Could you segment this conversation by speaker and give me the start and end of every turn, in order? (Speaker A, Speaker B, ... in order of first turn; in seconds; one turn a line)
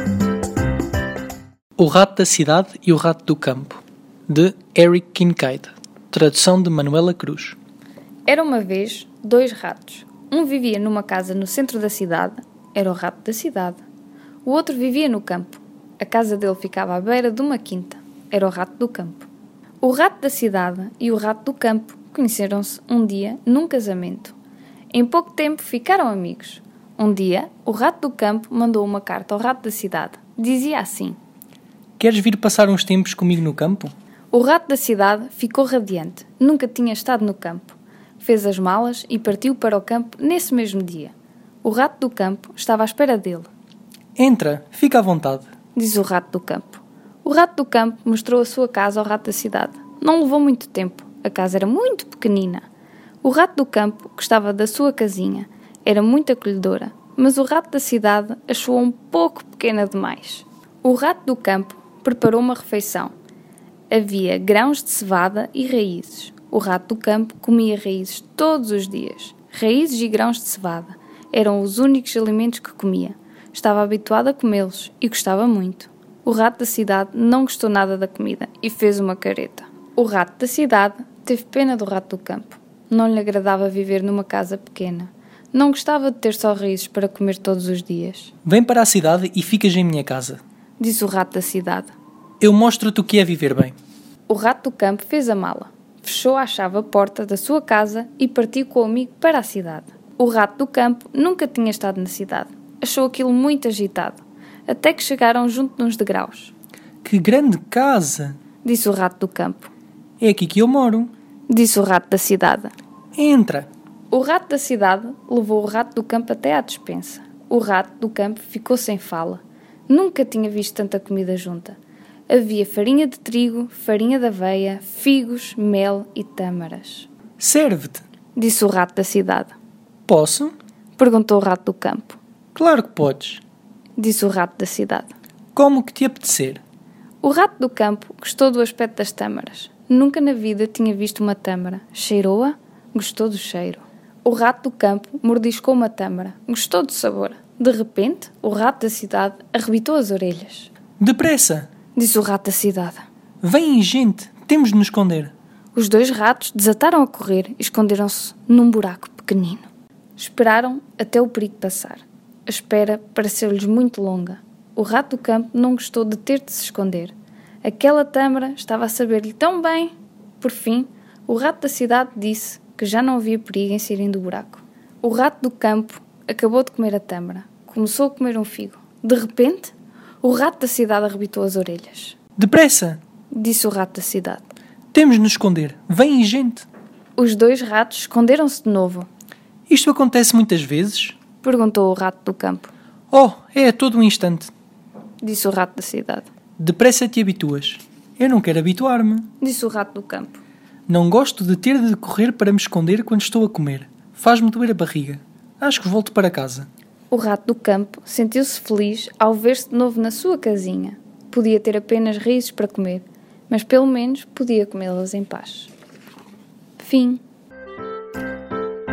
Speaker A: 1.8-7.6
Speaker B: 8.3-13.8
Speaker B: 14.4-19.3
Speaker B: 19.8-24.4
Speaker B: 24.9-31.2
Speaker A: 32.0-33.9
Speaker B: 34.3-43.5
Speaker A: 44.2-45.5
Speaker B: 45.8-52.6
Speaker B: 53.2-63.1
Speaker B: 63.9-88.3
Speaker A: 88.5-90.4
Speaker B: 90.8-91.9
Speaker A: 92.4-93.7
Speaker B: 94.3-106.5
Speaker A: 107.0-108.4
Speaker B: 108.6-109.7
Speaker A: 110.2-111.1
Speaker B: 111.5-112.7
Speaker A: 113.2-113.7
Speaker B: 114.1-127.1
Speaker A: 127.4-128.0
Speaker B: 128.4-129.5
Speaker A: 130.1-130.5
Speaker B: 131.0-132.2
Speaker A: 132.6-133.4
Speaker B: 134.0-135.1
Speaker A: 135.6-136.6
Speaker B: 137.2-150.7
Speaker A: 151.0-151.7
Speaker B: 151.9-153.0
Speaker A: 153.4-155.3
Speaker B: 155.8-182.2
Speaker A: 182.4-183.0
Speaker B: 183.3-184.4
Speaker A: 184.9-186.7
Speaker B: 187.2-189.1
Speaker A: 189.7-191.2
Speaker B: 191.4-192.7
Speaker A: 193.1-194.5
Speaker B: 195.2-196.3
Speaker A: 196.6-199.3
Speaker B: 199.4-200.4
Speaker A: 200.9-206.7
Speaker B: 207.1-215.7
Speaker B: 216.8-217.2